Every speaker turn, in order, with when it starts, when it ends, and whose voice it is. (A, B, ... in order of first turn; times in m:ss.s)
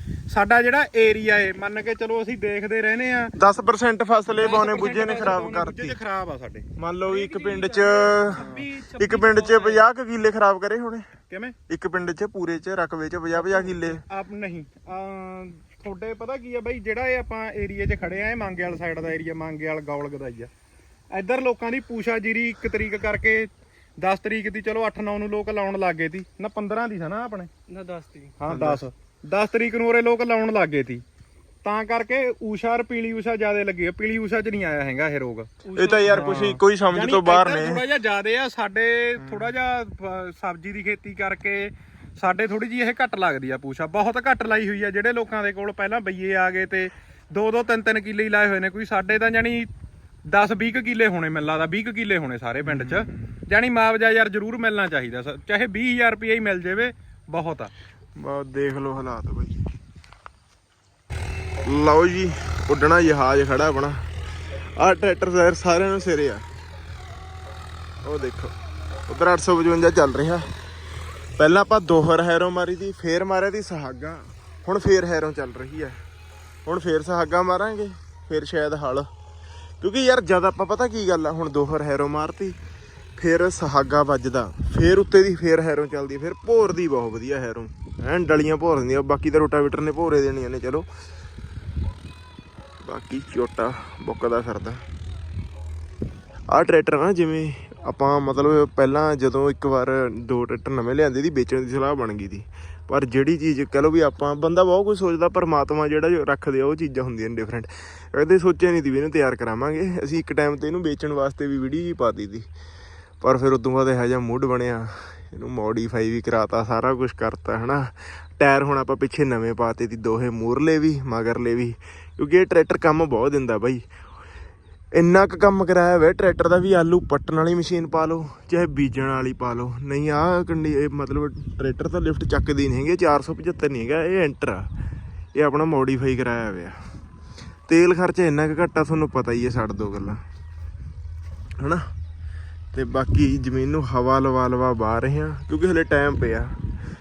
0:00.3-0:03.3 A
0:03.4-0:06.0 B
0:04.3-0:06.7 A
0:06.8-0:11.1 B
0:07.0-0:09.9 C
0:08.4-0:08.6 A
0:11.3-0:11.6 A
0:11.7-0:14.0 B
0:13.3-0:20.5 A
0:21.1-0:27.5 A
0:27.7-0:28.4 C
0:28.4-0:31.0 A
0:28.5-0:28.8 B
0:31.6-0:35.5 A
0:35.6-0:36.2 C
0:35.7-0:37.8 B
0:36.0-0:49.7 A
0:39.2-0:39.5 B
0:50.3-0:57.7 A
0:52.6-0:53.2 B
0:58.2-0:59.6 B
1:01.6-1:04.1 B
1:04.8-1:06.4 B
1:08.0-1:08.5 B
1:09.1-1:10.5 B
1:11.4-1:16.0 B
1:16.6-1:19.1 B
1:19.8-1:22.6 B
1:23.2-1:30.9 B
1:32.8-1:34.8 B
1:36.5-1:52.5 B
1:53.2-2:03.8 B
2:04.9-2:14.7 B
2:15.4-2:16.8 B
2:17.7-2:20.2 B
2:21.6-2:21.9 B
2:22.7-2:26.6 B